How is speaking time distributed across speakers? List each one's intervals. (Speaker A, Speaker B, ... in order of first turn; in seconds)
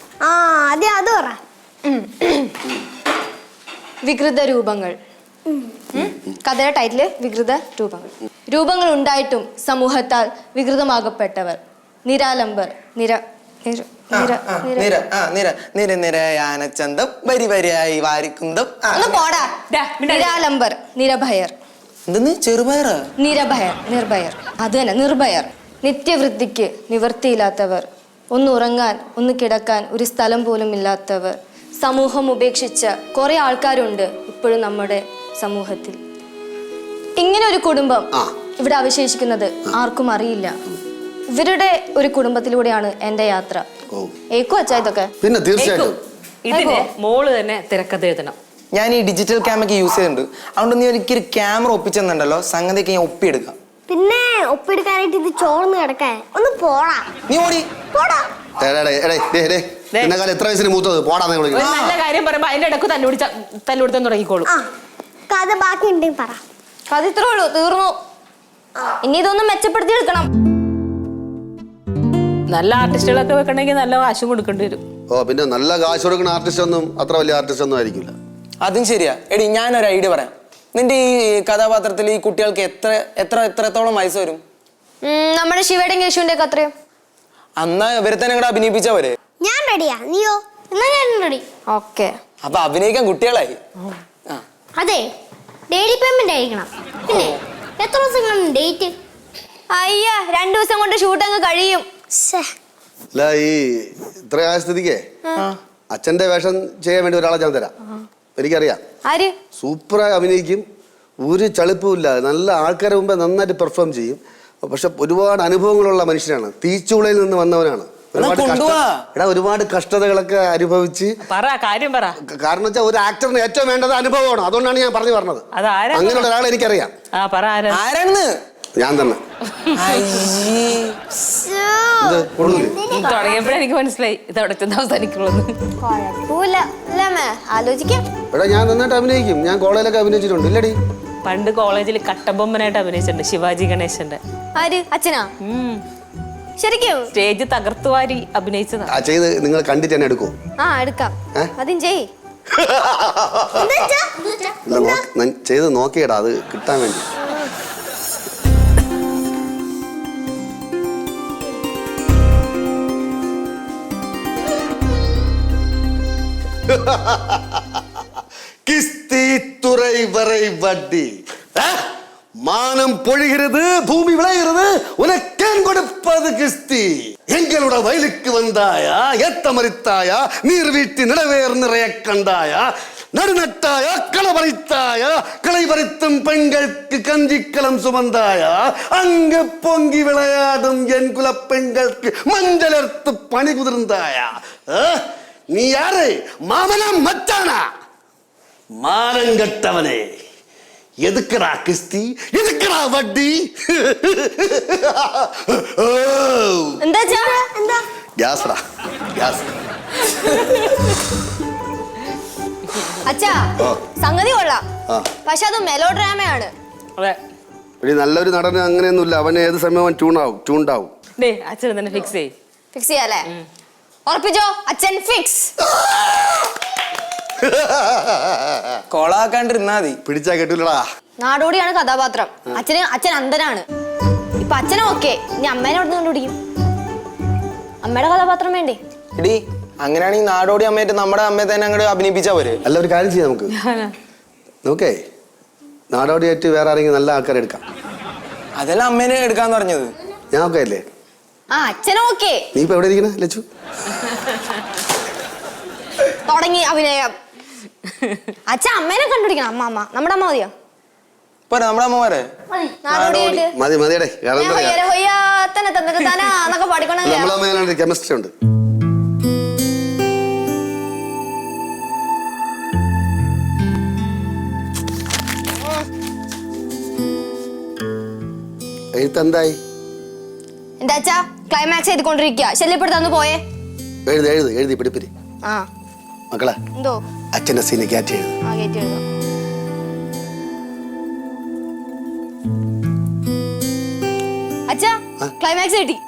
Speaker A: 0.2-1.3, 54.1-57.0, 65.5-66.2, 89.4-91.4, 95.7-96.7, 97.8-98.9, 102.2-102.5
Speaker B: 1.8-2.5, 4.0-5.0, 5.9-14.9, 18.9-21.5, 23.2-36.0, 37.2-40.6, 41.3-43.6, 44.3-45.1, 46.5-46.9, 66.9-68.0, 69.0-70.3, 85.0-86.7, 91.7-92.2, 99.7-101.9, 109.0-109.3, 131.3-132.2, 135.8-138.1, 144.5-145.3, 146.6-147.1, 150.6-152.1, 206.8-207.5, 213.0-214.6, 215.2-216.5, 222.7-223.3, 224.1-225.5, 231.2-233.7, 234.4-236.3, 237.8-238.8, 251.5-252.5, 256.2-257.1, 258.5-260.5, 262.6-263.5, 264.4-267.4, 280.8-283.4, 286.7-287.0, 288.4-289.0, 294.7-296.0
Speaker C: 14.1-19.2, 22.1-23.0, 48.7-53.5, 57.3-57.7, 61.5-62.0, 78.6-84.4, 87.6-89.1, 92.4-93.6, 118.1-119.0, 127.7-128.3, 129.8-131.0, 228.9-230.0, 239.2-242.6, 248.6-249.9, 261.5-262.3, 262.9-263.4
Speaker D: 19.7-20.4, 45.6-48.4, 61.5-64.5, 72.5-74.8, 121.2-122.2, 125.5-126.3, 127.1-127.8, 132.4-135.5, 141.2-144.2, 145.4-145.8, 147.1-148.9, 221.2-222.3, 243.5-243.9
Speaker E: 45.2-46.0, 58.6-61.7, 75.1-78.1, 103.1-105.0, 105.9-107.7, 108.3-108.8, 109.6-110.6, 111.2-121.1, 122.2-126.9, 128.8-129.2, 132.0-132.8, 138.3-140.8, 148.9-150.3, 152.6-153.8, 154.7-157.1, 166.7-167.8, 168.7-171.8, 172.4-197.6, 198.8-200.1, 201.0-206.8, 208.2-208.6, 209.1-209.5, 217.8-220.9, 225.8-226.4, 227.4-228.8, 230.0-230.8, 242.6-243.5, 244.6-245.0, 245.9-247.6, 250.3-250.8, 252.5-253.4, 263.5-264.8, 267.0-268.3, 278.9-279.6, 284.1-285.1, 286.3-286.6, 287.3-288.3